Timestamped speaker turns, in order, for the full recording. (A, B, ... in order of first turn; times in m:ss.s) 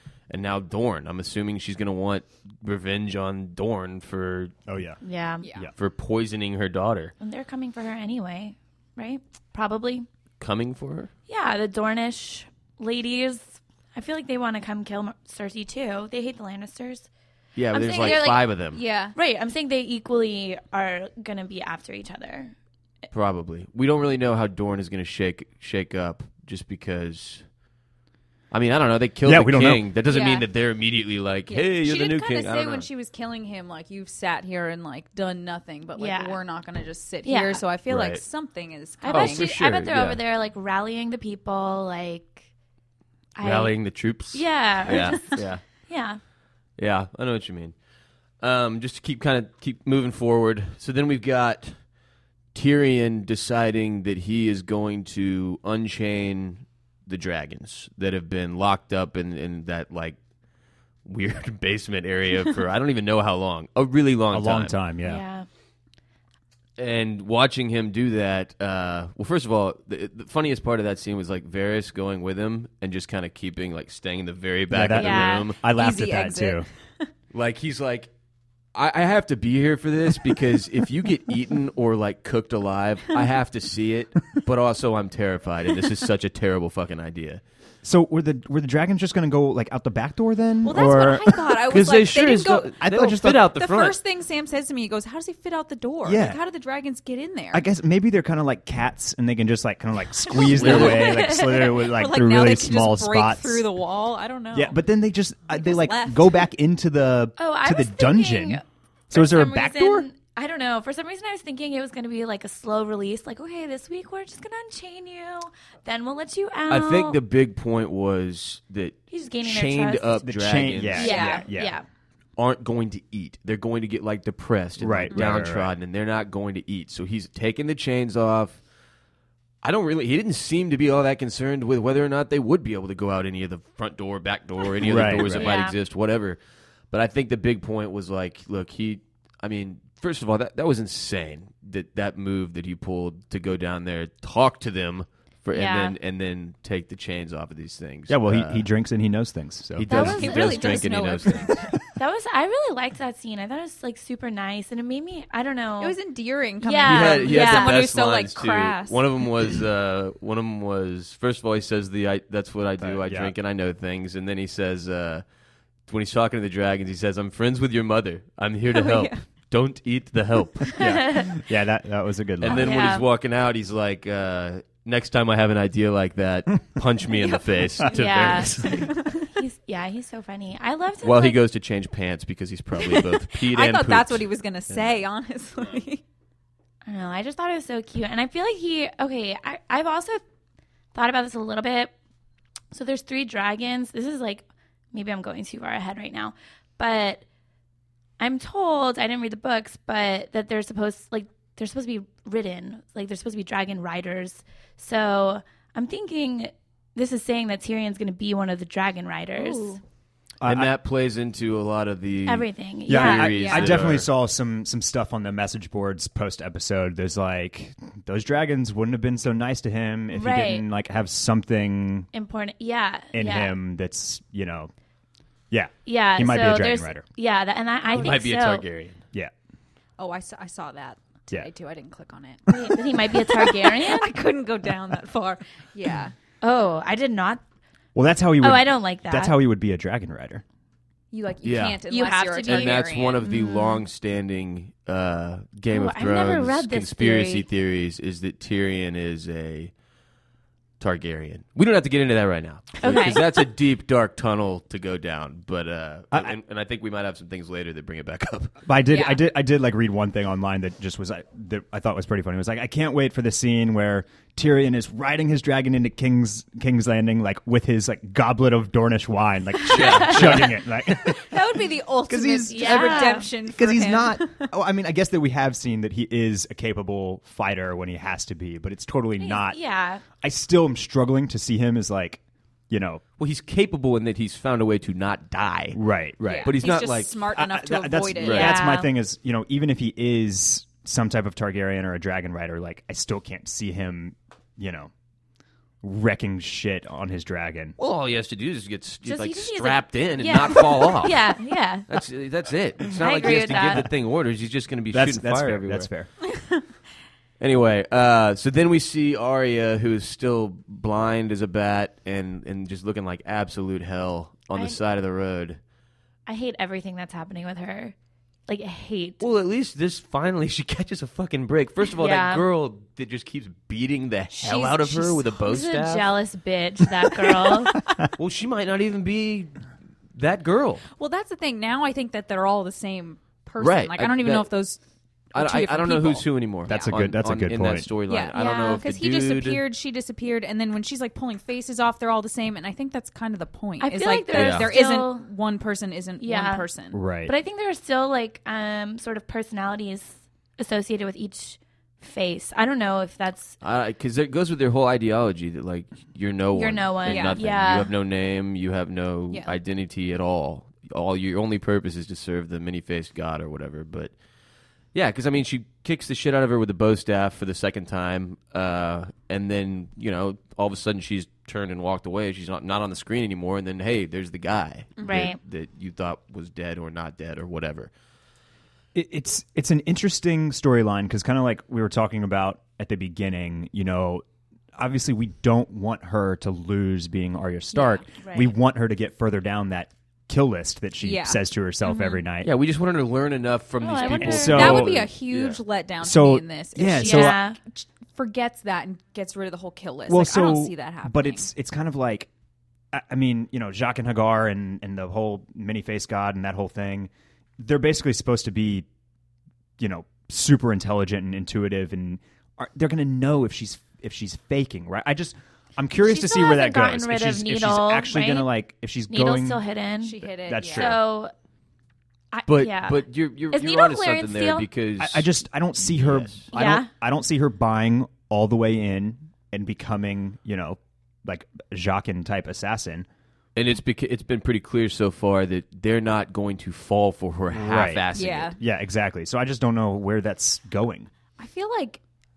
0:00.3-0:04.5 A
0:04.7-0:05.0 B
0:05.0-0:05.5 C
0:05.4-0:05.7 D
0:05.8-0:07.1 A
0:07.2-0:10.1 C
0:10.4-0:11.1 A
0:11.3-0:17.1 C
0:17.6-0:18.8 A
0:17.7-0:18.5 C
0:17.9-0:19.2 D
0:19.1-0:22.5 C
0:23.1-0:27.4 A
0:28.5-0:32.9 A
0:29.2-0:29.9 B
0:30.1-0:30.5 D
0:31.5-0:39.5 D
0:36.0-0:36.4 C
0:37.2-0:37.6 C
0:37.8-0:38.2 A
0:39.0-0:42.4 C
0:39.1-0:40.2 A
0:43.4-0:43.8 C
0:43.4-0:45.6 A
0:44.3-0:46.2 C
0:45.0-0:45.4 D
0:46.8-0:47.7 A
0:48.4-0:51.8 A
0:52.5-1:00.2 A
1:01.0-1:04.7 A
1:04.3-1:05.2 B
1:05.0-1:05.4 C
1:06.8-1:15.6 A
1:14.7-1:16.7 B
1:14.9-1:15.5 C
1:15.6-1:17.1 D
1:17.3-1:18.1 A
1:18.7-1:27.4 A
1:27.8-1:31.6 B
1:30.6-1:32.8 D
1:31.7-1:34.0 A
1:32.8-1:33.5 B
1:33.4-1:37.6 D
1:36.0-1:36.4 B
1:37.5-1:43.7 B
1:40.3-1:44.8 D
1:40.3-1:41.1 A
1:40.6-1:41.7 C
1:44.5-1:50.0 B
1:45.5-1:46.4 D
1:47.4-1:57.2 C
1:56.7-2:01.2 A
1:59.1-2:00.2 C
2:00.2-2:01.7 B
2:00.9-2:01.4 D
2:00.9-2:01.8 C
2:02.4-2:08.6 A
2:04.8-2:05.7 B
2:09.6-2:16.4 A
2:14.8-2:15.5 B
2:15.2-2:15.8 C
2:16.9-2:28.6 A
2:25.5-2:26.0 C
2:28.1-2:30.6 B
2:29.8-2:31.6 A
2:29.9-2:31.7 D
2:31.5-2:31.8 B
2:32.0-2:36.0 C
2:35.8-2:39.0 D
2:36.6-2:37.8 C
2:36.8-2:45.2 A
2:42.8-2:43.3 B
2:45.9-2:50.8 A
2:48.7-2:49.2 D
2:50.8-2:52.9 B
2:50.8-2:51.3 C
2:52.4-2:58.9 A
2:52.5-2:53.0 C
2:57.9-3:01.4 C
2:58.3-2:59.3 D
3:01.0-3:05.0 A
3:02.8-3:06.0 D
3:06.8-3:10.2 C
3:10.9-3:11.9 C
3:12.7-3:17.2 C
3:18.2-3:29.8 C
3:29.3-3:29.8 D
3:30.4-3:30.7 B
3:30.4-3:34.1 A
3:32.2-3:33.5 C
3:32.9-3:42.1 B
3:33.3-3:33.8 D
3:40.1-3:40.6 C
3:42.1-3:43.6 C
3:43.1-3:44.7 B
3:45.5-3:47.0 B
3:45.8-3:48.6 C
3:47.9-3:49.0 A
3:50.0-3:52.4 D
3:52.5-3:54.1 C
3:53.1-3:56.1 D
3:56.4-3:57.4 C
3:57.9-4:00.4 B
3:58.4-3:59.3 C
4:01.1-4:03.2 D
4:01.4-4:01.8 A
4:01.9-4:03.8 C
4:02.4-4:09.7 A
4:05.7-4:07.4 C
4:10.8-4:18.6 A
4:12.8-4:13.3 C
4:18.6-4:39.6 B
4:18.9-4:19.2 D
4:29.7-4:30.6 A
4:29.7-4:30.5 C
4:31.1-4:34.5 D
4:32.5-4:33.3 C
4:39.2-4:40.0 C
4:40.2-4:43.0 B
4:43.2-4:45.8 A
4:45.7-4:46.6 B
4:46.2-4:48.6 D
4:46.4-4:47.3 A
4:47.3-4:54.9 B
4:48.2-4:48.5 A
4:48.3-4:48.9 C
4:55.8-4:57.8 B
4:57.8-5:01.3 A
4:59.0-5:01.9 C
5:01.9-5:05.9 A
5:03.0-5:03.8 C
5:04.9-5:06.1 B
5:07.4-5:15.6 A
5:16.2-5:17.9 C
5:18.5-5:19.2 C
5:19.2-5:26.2 A
5:22.0-5:22.4 C
5:24.3-5:27.7 C
5:27.4-5:28.1 B
5:28.2-5:29.6 A
5:30.1-5:30.8 A
5:31.0-5:34.8 D
5:33.6-5:34.5 A
5:35.3-5:36.9 D
5:35.3-5:39.6 A
5:36.7-5:37.9 B
5:38.1-5:47.0 D
5:38.3-5:38.8 C
5:43.8-5:45.2 C
5:44.3-5:44.7 A
5:46.2-5:46.6 C
5:46.9-5:47.3 B
5:47.2-5:53.6 C
5:53.6-6:04.1 A
5:56.5-5:57.9 C
5:57.0-5:57.4 D
5:59.3-5:59.5 D
6:04.9-6:17.9 A
6:15.0-6:15.4 C
6:18.9-6:24.2 B
6:24.7-6:32.5 B
6:27.7-6:28.0 D
6:28.1-6:28.5 C
6:31.0-6:31.4 D
6:31.8-6:32.2 C
6:32.4-6:35.6 A
6:33.8-6:34.8 C
6:34.2-6:35.1 B
6:34.2-6:41.5 D
6:36.0-6:37.4 B
6:37.0-6:37.6 C
6:40.1-6:42.3 B
6:42.9-6:48.8 B
6:49.8-6:59.6 B
6:56.0-6:58.5 C
6:59.1-7:01.3 C
7:00.0-7:01.0 D
7:00.4-7:01.0 B
7:02.3-7:04.7 C
7:02.5-7:06.4 A
7:05.0-7:13.1 B
7:06.5-7:06.9 C
7:13.5-7:18.6 A
7:17.5-7:18.1 B
7:18.1-7:18.6 D
7:18.6-7:21.1 B
7:21.4-7:22.0 D